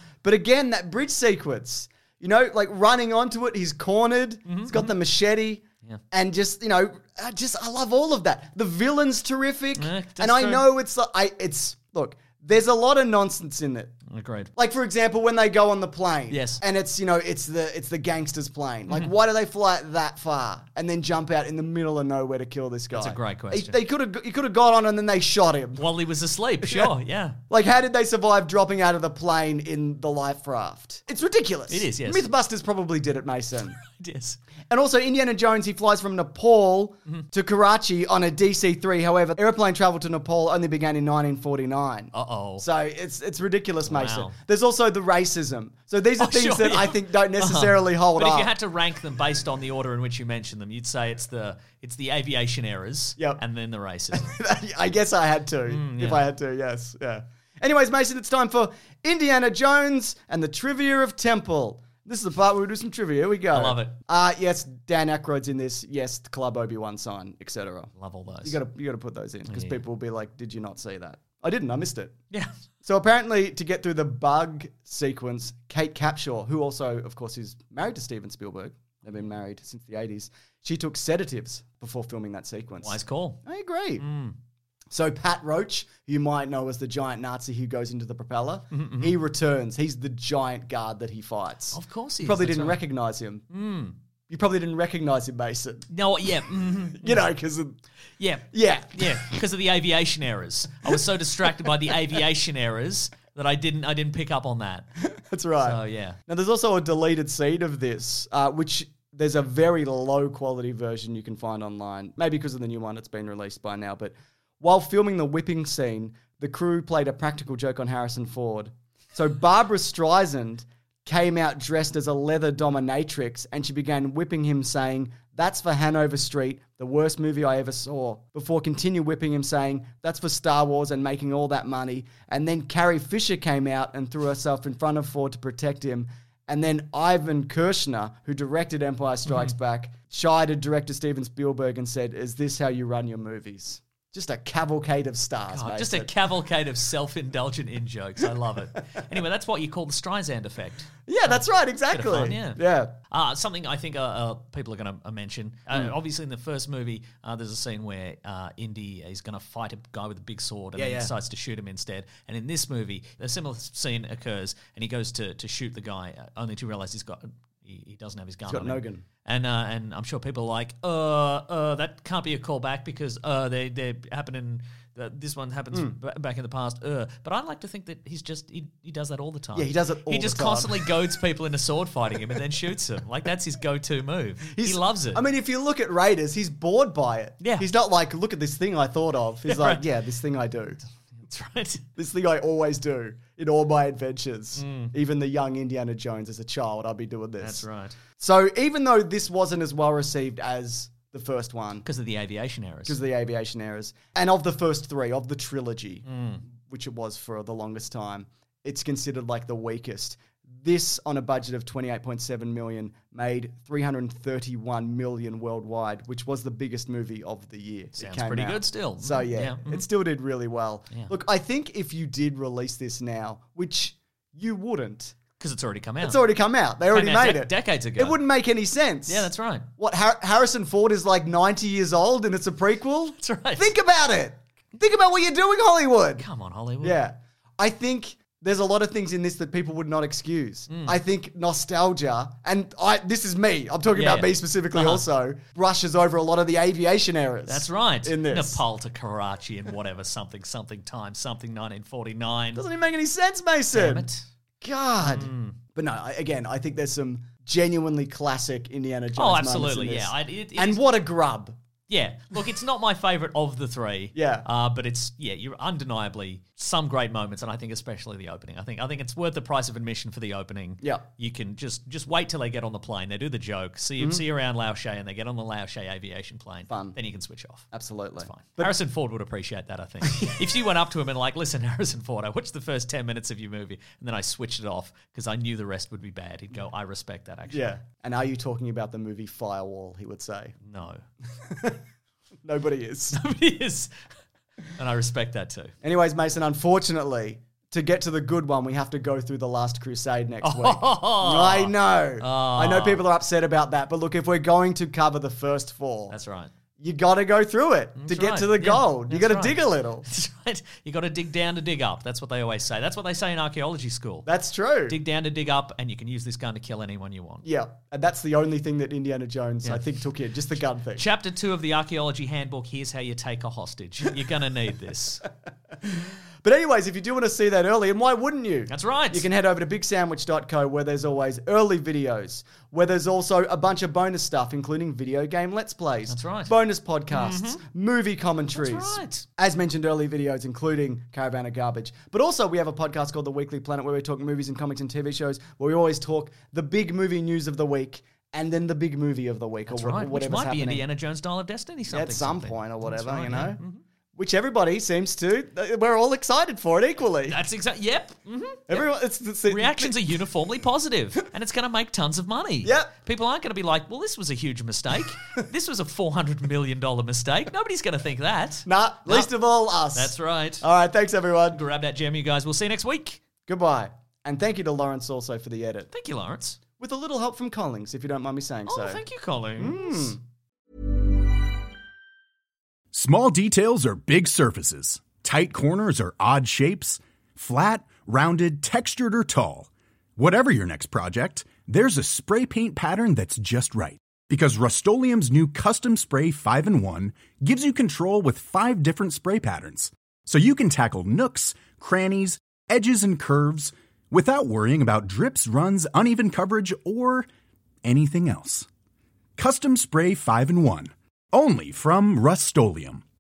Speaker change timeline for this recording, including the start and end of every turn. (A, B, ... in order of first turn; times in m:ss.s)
0:00.2-0:14.0 A
0:04.5-0:05.0 B
0:09.8-0:10.7 B
0:14.1-0:14.5 B
0:14.6-0:25.9 A
0:16.3-0:16.6 B
0:22.9-0:23.8 B
0:25.8-0:27.4 B
0:26.6-0:26.9 A
0:27.5-0:33.8 A
0:31.7-0:32.3 B
0:33.8-0:34.4 B
0:34.7-0:48.5 A
0:42.1-0:42.7 B
0:43.9-0:44.4 B
0:46.2-0:54.4 B
0:54.1-1:07.9 A
0:55.7-0:56.2 B
1:03.5-1:03.9 B
1:08.0-1:08.6 B
1:08.4-1:12.1 A
1:09.5-1:09.8 B
1:12.8-1:24.0 A
1:22.8-1:23.4 B
1:24.0-1:24.4 B
1:24.9-1:33.4 A
1:28.7-1:29.2 B
1:31.7-1:32.8 B
1:33.5-1:34.0 B
1:34.3-1:35.9 A
1:35.9-1:37.2 B
1:36.9-1:37.8 A
1:38.2-1:44.9 B
1:38.5-1:39.4 A
1:41.6-1:41.9 A
1:45.1-2:26.1 A
1:45.6-1:46.2 B
2:19.3-2:19.5 B
2:25.5-3:05.2 B
2:31.1-2:33.0 A
2:40.8-2:41.1 A
2:48.5-2:49.0 A
2:59.6-3:00.9 A
3:04.5-3:10.8 A
3:07.4-3:07.7 B
3:09.5-3:09.8 B
3:11.2-3:11.9 B
3:12.0-3:17.6 A
3:14.6-3:14.9 B
3:17.4-3:18.0 B
3:18.2-3:21.8 A
3:21.8-3:23.0 B
3:22.9-3:45.2 A
3:26.1-3:26.4 B
3:38.0-3:39.8 B
3:45.4-3:46.2 B
3:46.0-3:56.2 A
3:46.9-3:48.2 B
3:49.1-3:49.7 B
3:53.2-3:53.7 B
3:56.2-3:57.0 B
3:56.8-4:08.6 A
4:00.7-4:01.0 B
4:03.9-4:05.0 B
4:07.5-4:12.6 B
4:12.6-4:14.1 A
4:13.7-4:14.2 B
4:14.6-4:21.6 A
4:15.0-4:15.6 B
4:19.2-4:20.8 B
4:21.9-4:37.7 B
4:24.2-4:24.5 A
4:36.7-4:37.0 A
4:37.7-4:38.8 A
4:38.2-4:47.7 B
4:47.5-4:50.6 A
4:50.6-4:51.0 B
4:51.4-4:51.8 A
4:52.4-4:53.2 A
4:53.1-4:54.0 B
4:54.7-4:55.7 B
4:55.8-5:06.2 A
5:00.4-5:03.0 B
5:06.1-5:06.5 B
5:06.8-5:10.1 A
5:08.0-5:14.3 B
5:14.3-5:15.0 A
5:14.9-5:17.4 B
5:17.4-5:21.1 A
5:20.9-5:25.2 B
5:25.8-5:50.8 A
5:28.7-5:29.3 B
5:36.1-5:36.6 B
5:37.1-5:37.6 B
5:38.6-5:39.2 B
5:49.7-5:53.8 B
5:51.9-5:53.6 A
5:54.2-5:57.4 A
5:57.3-5:58.9 B
5:58.7-6:00.0 A
5:59.5-6:09.3 B
6:02.6-6:02.9 A
6:08.6-6:11.6 A
6:09.9-6:10.7 B
6:11.5-6:13.2 B
6:13.5-6:15.9 A
6:15.9-6:16.6 B
6:16.8-6:19.0 A
6:18.7-6:20.2 B
6:19.6-6:20.2 A
6:22.9-6:47.3 C
6:47.8-6:48.7 C
6:49.4-6:53.0 C